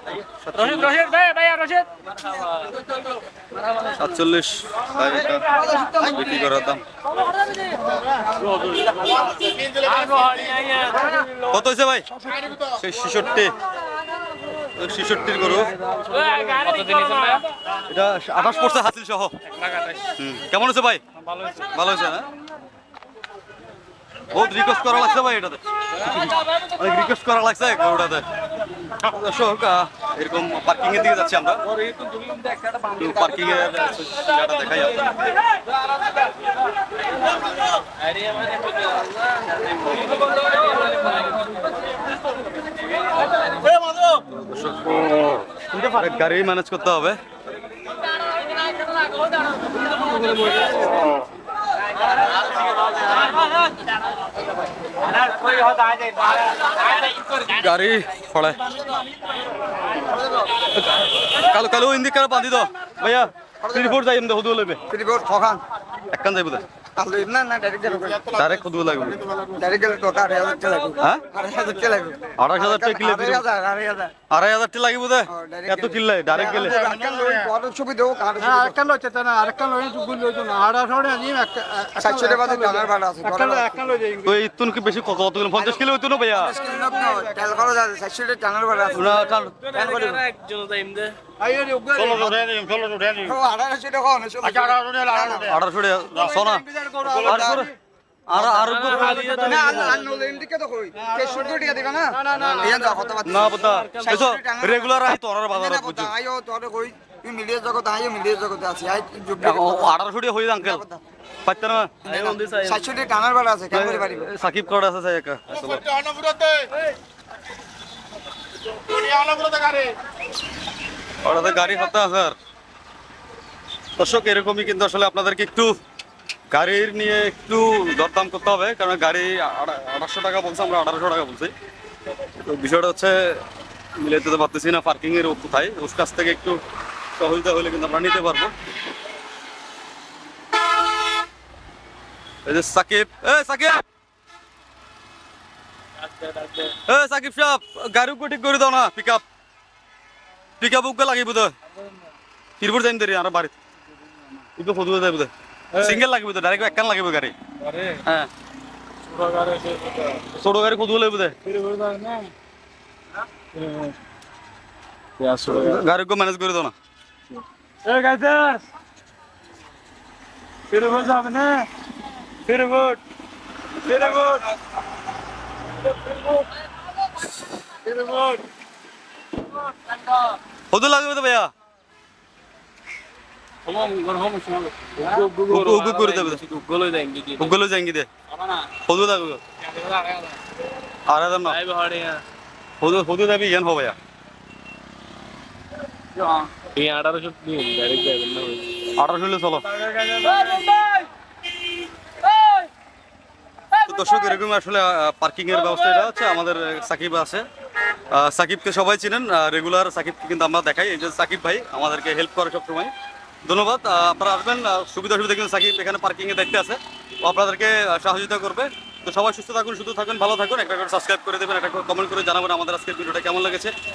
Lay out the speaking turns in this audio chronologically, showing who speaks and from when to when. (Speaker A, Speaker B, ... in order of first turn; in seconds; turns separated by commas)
Speaker A: 0.3-1.0, Speaker B: 1.0-1.9, Speaker A: 3.9-6.8, Speaker C: 5.5-6.1, Speaker D: 8.8-10.4, Speaker E: 10.1-11.1, Speaker B: 10.9-11.3, Speaker A: 11.5-12.1, Speaker A: 12.8-13.6, Speaker A: 14.8-15.7, Speaker B: 15.7-17.2, Speaker E: 16.1-17.4, Speaker A: 17.9-19.4, Speaker A: 20.2-21.0, Speaker A: 21.6-22.3, Speaker A: 24.3-28.3, Speaker A: 29.0-31.7, Speaker E: 31.8-33.5, Speaker A: 32.9-35.2, Speaker E: 38.0-41.4, Speaker A: 44.3-47.2, Speaker A: 57.3-58.6, Speaker A: 61.2-64.8, Speaker C: 63.6-64.0, Speaker C: 64.9-65.6, Speaker A: 66.1-66.7, Speaker C: 67.0-68.3, Speaker D: 68.0-69.6, Speaker A: 68.3-69.2, Speaker C: 69.6-74.1, Speaker A: 72.4-73.5, Speaker A: 74.3-76.8, Speaker C: 75.3-78.8, Speaker D: 76.4-77.5, Speaker B: 78.4-84.4, Speaker C: 82.0-83.8, Speaker A: 84.2-86.5, Speaker C: 85.5-90.2, Speaker B: 87.0-87.4, Speaker A: 88.9-89.9, Speaker E: 89.2-91.2, Speaker B: 91.4-92.2, Speaker D: 92.0-93.4, Speaker C: 93.2-95.5, Speaker D: 94.4-95.6, Speaker A: 95.4-97.7, Speaker D: 96.2-96.4, Speaker C: 96.2-97.7, Speaker D: 97.1-97.5, Speaker A: 98.3-100.0, Speaker C: 98.3-98.8, Speaker E: 98.6-99.8, Speaker C: 99.4-110.0, Speaker D: 101.0-101.3, Speaker B: 102.2-103.0, Speaker E: 102.3-102.6, Speaker A: 103.2-106.1, Speaker E: 103.6-104.2, Speaker A: 109.4-110.8, Speaker C: 110.6-111.0, Speaker A: 111.5-112.4, Speaker E: 112.0-112.8, Speaker C: 112.2-114.3, Speaker A: 113.7-115.8, Speaker D: 115.5-116.7, Speaker D: 118.8-119.9, Speaker A: 121.2-122.4, Speaker A: 124.0-125.8, Speaker A: 126.5-131.5, Speaker A: 132.4-133.4, Speaker A: 134.0-136.6, Speaker A: 137.2-138.5, Speaker A: 142.4-143.8, Speaker E: 146.1-146.7, Speaker A: 146.9-149.2, Speaker A: 150.6-151.5, Speaker A: 152.6-153.6, Speaker A: 154.6-157.3, Speaker E: 157.7-157.9, Speaker A: 158.0-158.3, Speaker E: 159.1-159.9, Speaker A: 160.3-161.4, Speaker B: 161.5-162.3, Speaker B: 163.6-163.9, Speaker E: 165.2-165.8, Speaker A: 165.5-166.7, Speaker B: 167.9-168.6, Speaker B: 170.7-171.7, Speaker B: 172.5-173.0, Speaker B: 173.9-174.4, Speaker B: 177.9-178.3, Speaker A: 180.7-181.5, Speaker E: 183.7-187.6, Speaker A: 185.5-186.4, Speaker A: 187.4-188.1, Speaker A: 188.8-189.4, Speaker E: 189.7-190.3, Speaker A: 191.1-191.6, Speaker E: 191.5-192.2, Speaker A: 192.8-194.0, Speaker E: 196.6-198.7, Speaker A: 199.0-199.7, Speaker E: 200.2-200.6, Speaker A: 203.8-207.5, Speaker A: 208.1-212.9, Speaker A: 213.5-223.7